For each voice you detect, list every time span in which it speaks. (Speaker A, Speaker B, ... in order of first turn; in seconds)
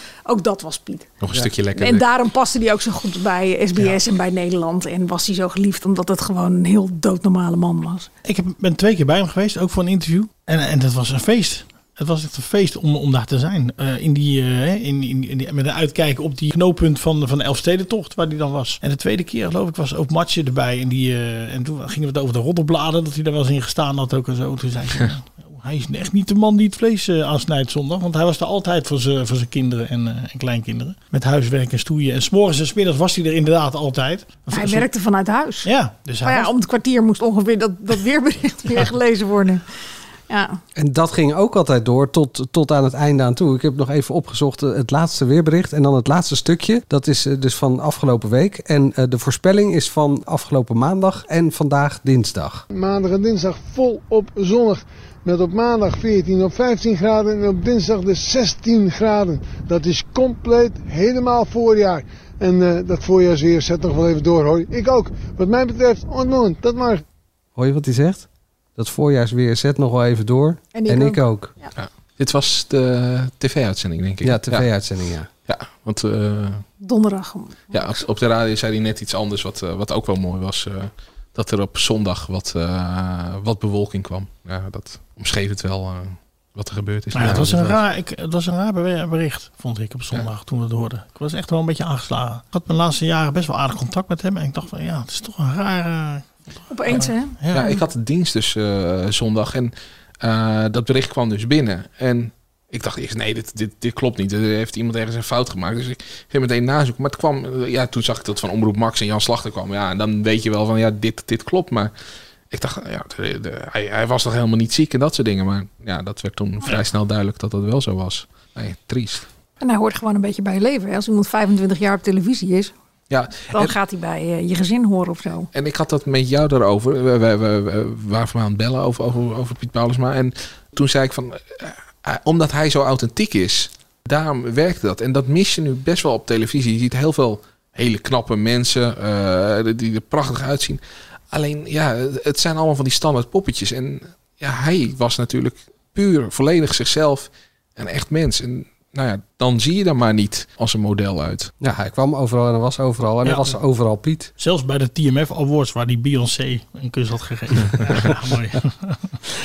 Speaker A: 0.2-1.1, 1.8-8.1, 34.5-35.7, 36.2-39.6, 40.3-40.6, 70.7-71.7, 76.8-77.9, 96.7-97.4, 119.6-122.7, 123.5-125.5
Speaker B: 1.2-2.0, 71.7-74.7, 75.5-76.6, 77.7-87.8, 97.5-111.9, 112.5-119.2, 123.1-123.7, 125.5-151.5
Speaker C: 8.2-34.9, 35.6-36.5, 87.1-96.3, 96.9-97.8, 153.2-153.5, 154.4-159.1
Speaker D: 40.8-52.6, 67.5-71.5, 74.2-75.3, 151.6-154.3
Speaker E: 52.7-67.0